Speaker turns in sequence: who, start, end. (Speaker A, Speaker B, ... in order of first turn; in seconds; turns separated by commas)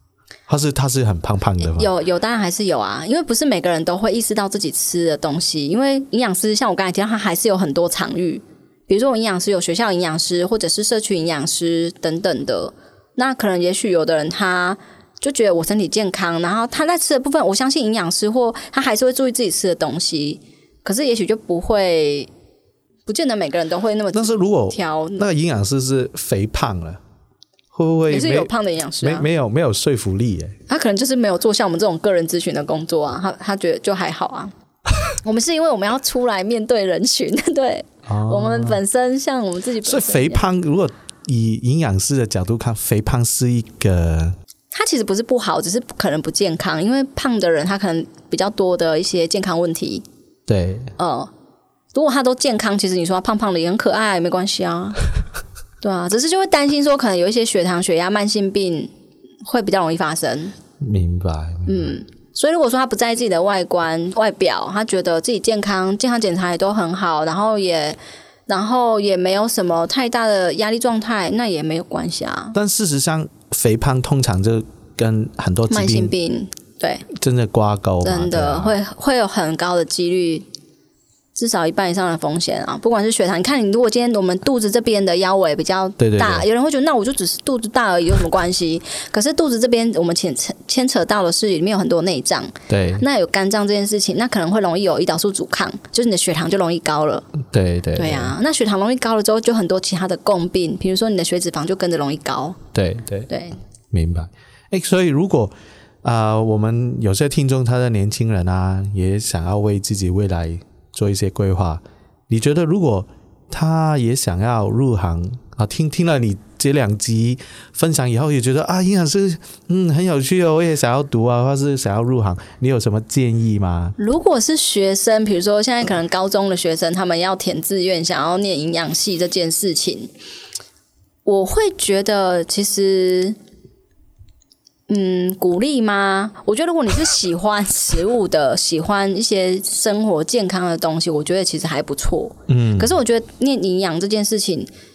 Speaker A: 0.5-1.9, Speaker B: 1.6-22.3, Speaker B: 23.1-25.3, Speaker A: 24.1-27.0, Speaker A: 27.7-30.6, Speaker B: 28.1-29.3, Speaker B: 30.7-34.5, Speaker B: 35.2-40.4, Speaker A: 38.0-38.8, Speaker A: 39.8-44.4, Speaker B: 44.7-50.0, Speaker A: 50.5-50.9, Speaker B: 51.0-51.3, Speaker B: 51.9-55.1, Speaker B: 55.8-58.9, Speaker B: 59.4-60.5, Speaker A: 60.8-61.9, Speaker B: 61.7-72.6, Speaker A: 72.5-76.1, Speaker B: 75.7-77.1, Speaker A: 77.1-78.8, Speaker B: 78.0-80.5, Speaker B: 81.3-97.3, Speaker A: 86.0-86.5, Speaker A: 92.7-93.0, Speaker A: 97.5-98.3, Speaker B: 97.9-102.6, Speaker A: 102.7-103.3, Speaker B: 103.3-103.6, Speaker A: 103.9-124.0, Speaker B: 124.0-130.1, Speaker B: 131.2-133.4, Speaker B: 134.9-144.7, Speaker A: 142.5-143.0